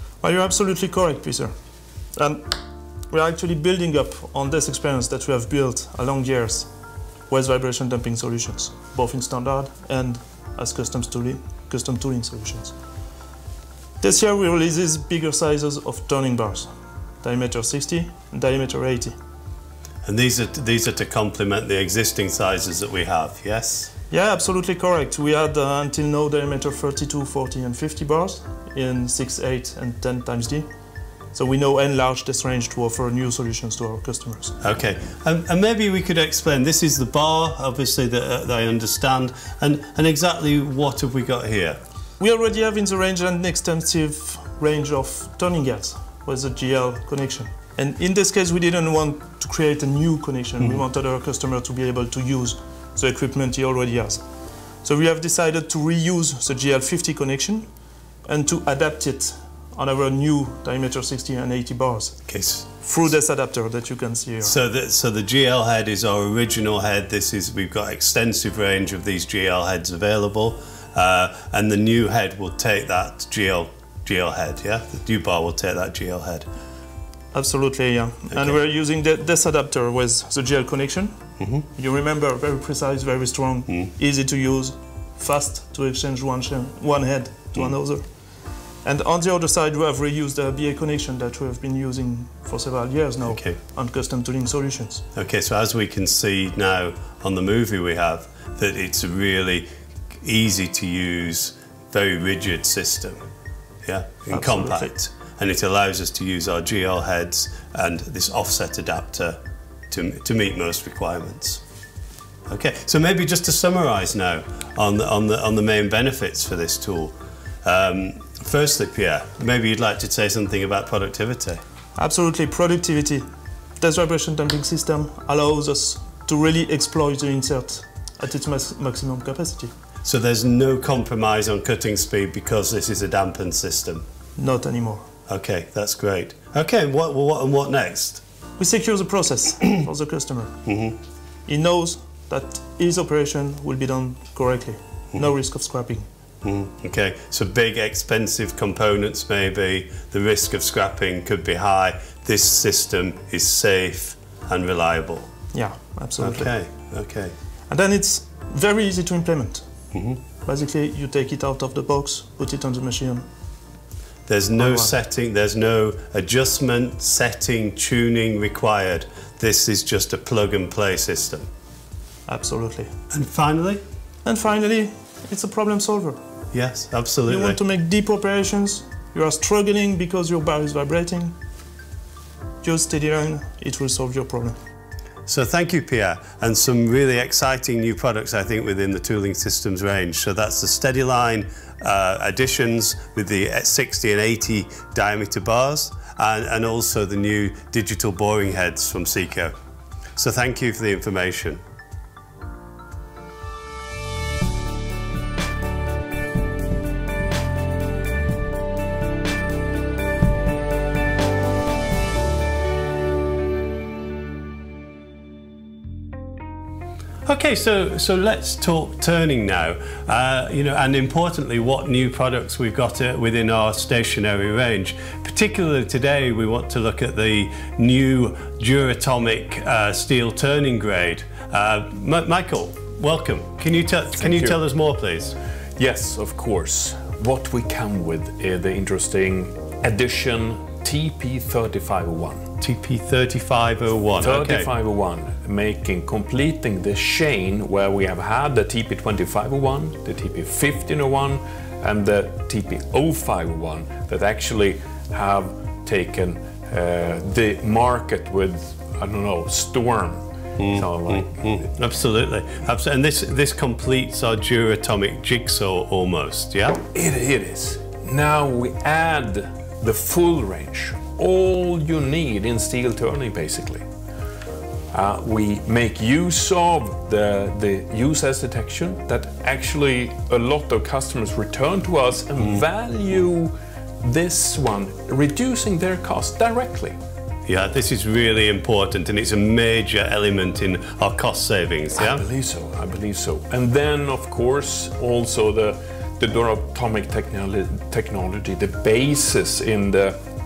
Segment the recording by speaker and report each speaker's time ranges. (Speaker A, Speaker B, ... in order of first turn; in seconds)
Speaker A: 0.2-1.5, 2.1-2.5, 3.1-6.7, 7.3-12.7, 14.0-19.1, 24.1-30.7, 31.3-34.5, 42.2-54.2, 54.8-57.7, 58.2-62.2, 62.8-64.5, 77.3-88.0, 88.8-95.0, 104.3-104.9, 122.0-123.2, 123.8-129.7, 134.3-135.1, 138.6-140.6, 141.4-146.1, 155.5-156.5, 157.7-159.7, 160.4-163.2, 164.6-164.9, 172.2-172.9, 174.2-176.2, 177.3-181.3, 182.6-184.6
Speaker B: 20.0-23.9, 34.6-41.8, 62.3-62.7, 64.4-76.5, 93.2-93.6, 95.1-99.7, 100.2-103.2, 103.8-109.4, 109.9-111.6, 112.5-117.1, 117.6-121.6, 130.0-134.0, 135.3-138.2, 140.7-141.0, 146.4-155.3, 156.2-157.3, 159.9-160.2, 164.3-171.5, 173.1-173.8, 176.5-177.6, 185.3-199.5, 200.2-201.6, 217.2-235.3, 242.6-244.7, 260.6-266.8, 287.5-292.2
Speaker C: 234.2-234.6, 235.8-242.5, 244.2-261.4, 266.9-273.8, 274.9-286.9, 291.9-300.2